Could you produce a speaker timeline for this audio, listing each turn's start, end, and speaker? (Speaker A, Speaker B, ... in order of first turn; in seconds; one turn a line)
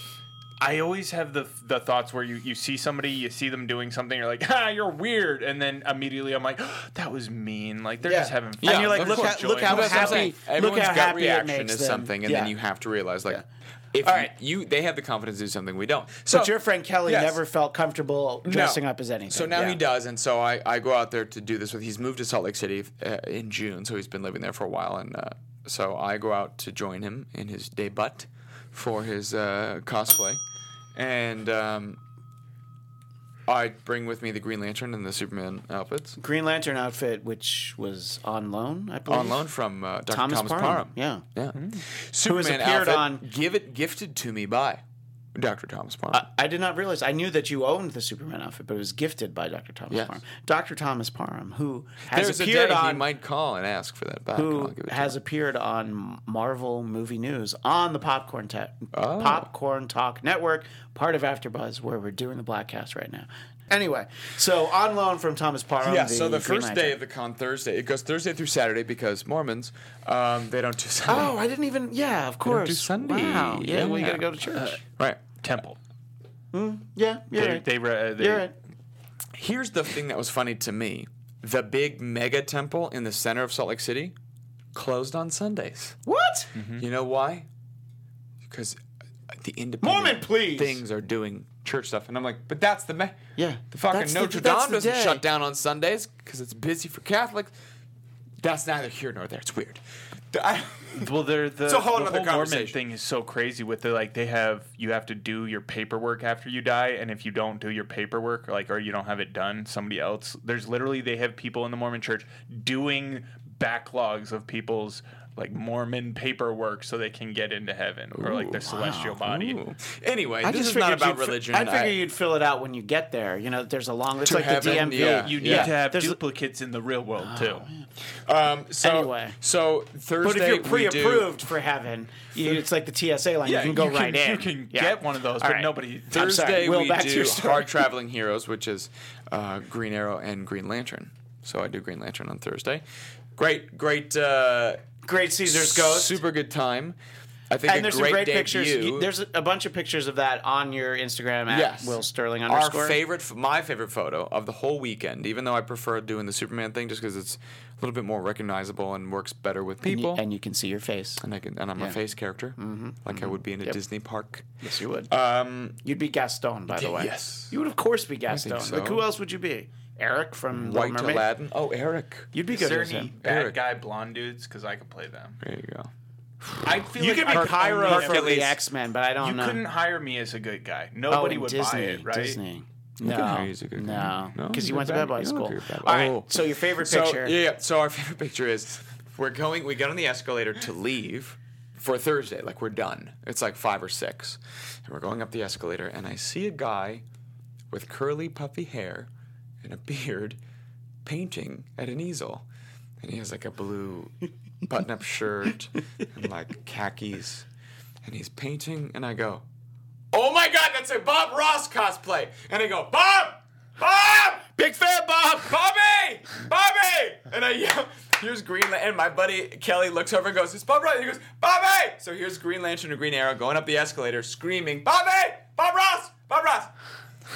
Speaker A: 0.6-10.3
Speaker B: 8.0-12.5
Speaker C: 8.6-17.4
Speaker B: 14.0-14.3
Speaker B: 16.3-19.8
Speaker C: 18.4-30.4
Speaker C: 30.9-32.0
Speaker C: 33.5-36.2
Speaker B: 36.2-39.5
Speaker C: 39.1-44.8
Speaker B: 40.1-41.2
Speaker A: 41.6-41.8
Speaker B: 42.2-43.2
Speaker C: 45.4-46.2
Speaker B: 46.1-53.1
Speaker C: 49.9-50.2
Speaker C: 52.1-55.2
Speaker B: 54.3-67.0
Speaker C: 58.9-59.5
Speaker C: 65.8-71.4
Speaker B: 71.1-74.8
Speaker C: 72.4-74.3
Speaker A: 74.5-74.8
Speaker C: 75.0-75.3
Speaker A: 75.4-75.8
Speaker B: 76.5-77.7
Speaker A: 77.4-78.5
Speaker B: 78.2-78.5
Speaker C: 79.3-84.2
Speaker C: 84.7-86.0
Speaker B: 86.1-86.5
Speaker A: 86.5-86.8
Speaker C: 86.8-87.5
Speaker C: 88.5-97.5
Speaker B: 89.8-90.8
Speaker B: 93.4-95.2
Speaker C: 98.4-101.1
Speaker A: 101.0-119.6
Speaker C: 101.7-102.8
Speaker C: 118.2-122.0
Speaker B: 118.7-119.2
Speaker B: 120.4-126.2
Speaker C: 124.2-125.7
Speaker A: 124.6-127.7
Speaker B: 127.2-127.9
Speaker C: 128.2-131.4
Speaker B: 128.8-129.4
Speaker B: 130.2-137.8
Speaker A: 133.4-136.3
Speaker C: 136.1-142.8
Speaker C: 143.4-144.8
Speaker B: 145.0-146.2
Speaker C: 145.4-147.0
Speaker C: 147.5-149.1
Speaker B: 147.7-153.0
Speaker C: 151.5-160.2
Speaker B: 159.8-161.2
Speaker C: 161.2-164.5
Speaker B: 162.6-163.8
Speaker B: 164.6-165.1
Speaker C: 165.1-165.8
Speaker B: 165.8-171.2
Speaker C: 166.7-167.6
Speaker C: 168.3-169.1
Speaker C: 170.5-172.3
Speaker B: 172.3-173.1
Speaker A: 172.5-175.4
Speaker C: 173.2-173.6
Speaker C: 175.4-175.9
Speaker C: 176.4-176.8
Speaker A: 176.6-178.4
Speaker B: 177.0-179.6
Speaker C: 177.3-178.6
Speaker A: 179.2-182.4
Speaker B: 181.1-187.4
Speaker C: 183.0-197.0
Speaker C: 197.7-199.1
Speaker C: 199.6-200.4
Speaker C: 201.1-202.5
Speaker C: 203.0-207.5
Speaker C: 208.1-209.4
Speaker C: 210.1-226.7
Speaker B: 214.6-215.4